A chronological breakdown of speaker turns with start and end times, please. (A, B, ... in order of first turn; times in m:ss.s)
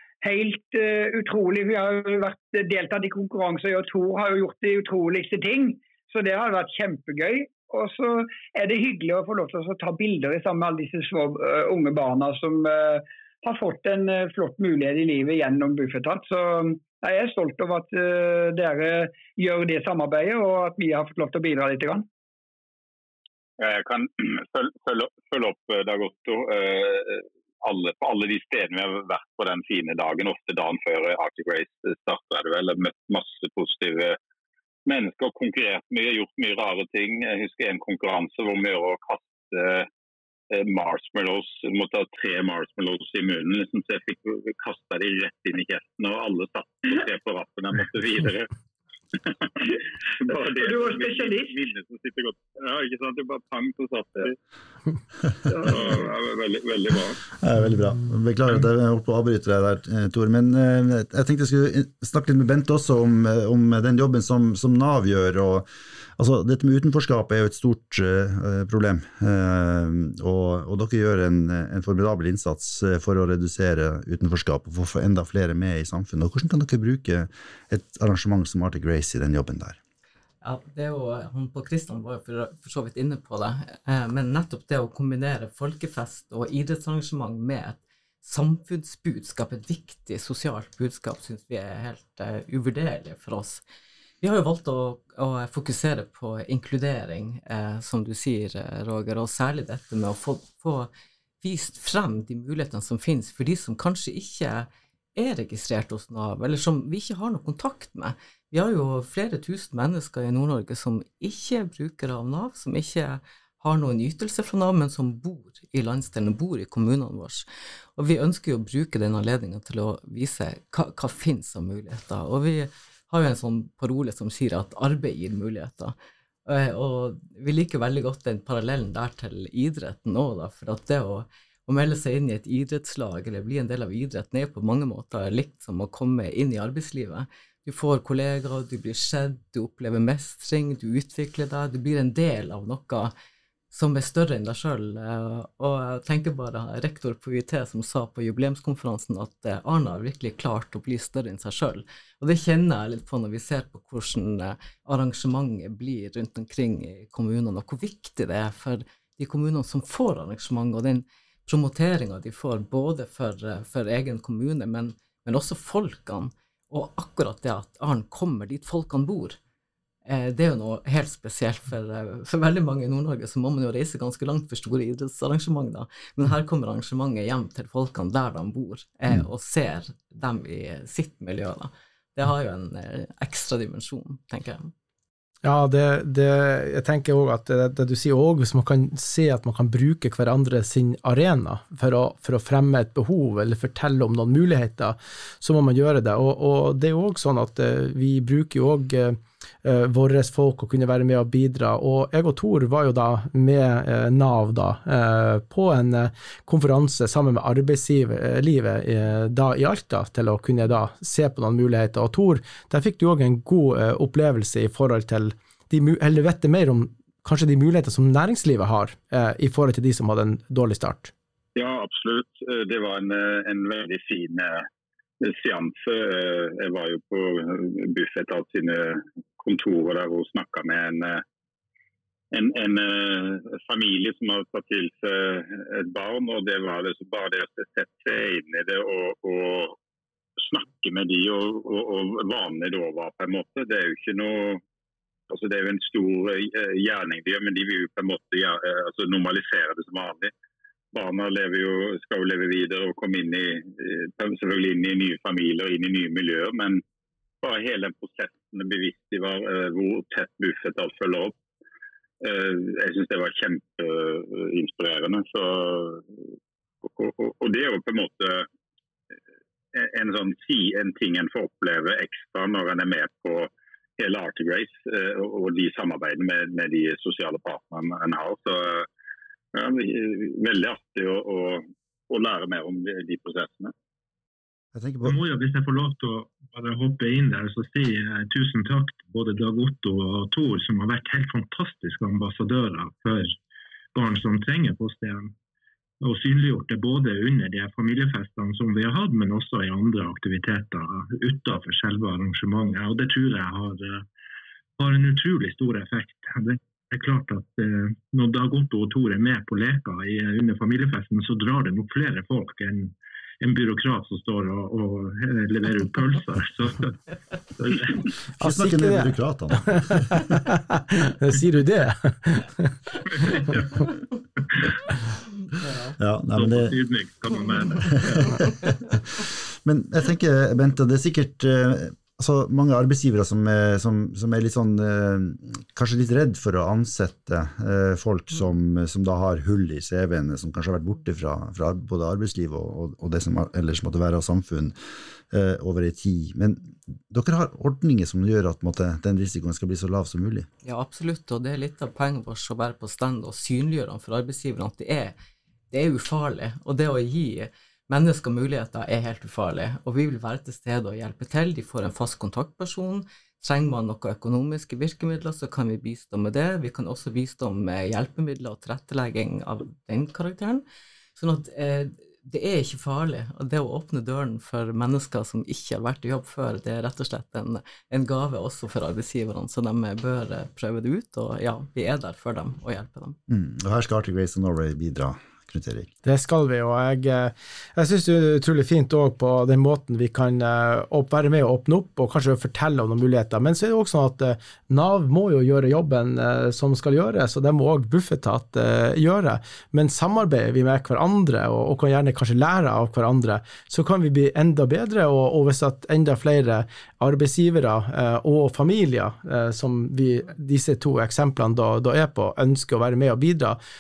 0:00.2-0:22.1 A
0:23.6-0:34.2 B
0:34.9-0:39.9 B
0:40.5-0:48.5 B
0:49.1-0:54.4 B
0:50.3-0:51.5 A
0:55.5-0:57.2 B
0:57.4-1:19.8 C
1:20.4-1:33.6 D
1:34.2-1:40.9 D
1:41.4-2:23.1 D
2:23.7-2:49.4 D
2:50.1-3:04.7 D
3:05.4-3:41.1 E
3:41.6-3:44.7 B
3:45.2-3:51.2 B
3:52.3-3:59.8 B
4:00.4-4:04.6 B
4:05.3-4:10.3 B
4:10.9-4:16.8 B
4:17.4-4:21.4 B
4:22.2-4:26.2 B
4:26.8-4:28.5 B
4:29.7-4:38.9 B
4:39.5-4:43.7 B
4:44.7-4:45.2 C
4:45.0-4:53.4 F
4:53.9-4:55.3 F
4:56.0-5:04.1 F
5:04.8-5:17.0 F
5:17.6-5:18.0 F
5:18.4-5:20.1 C
5:18.4-5:19.2 E
5:19.7-5:22.7 E
5:23.1-5:24.7 F
5:25.7-5:25.9 D
5:26.0-5:26.8 C
5:26.3-5:28.5 F
5:29.6-5:44.8 C
5:45.3-5:50.5 C
5:50.6-5:55.2 D
5:55.7-6:10.6 D
6:11.2-6:23.2 D
6:23.3-6:25.9 C
6:26.0-6:53.6 E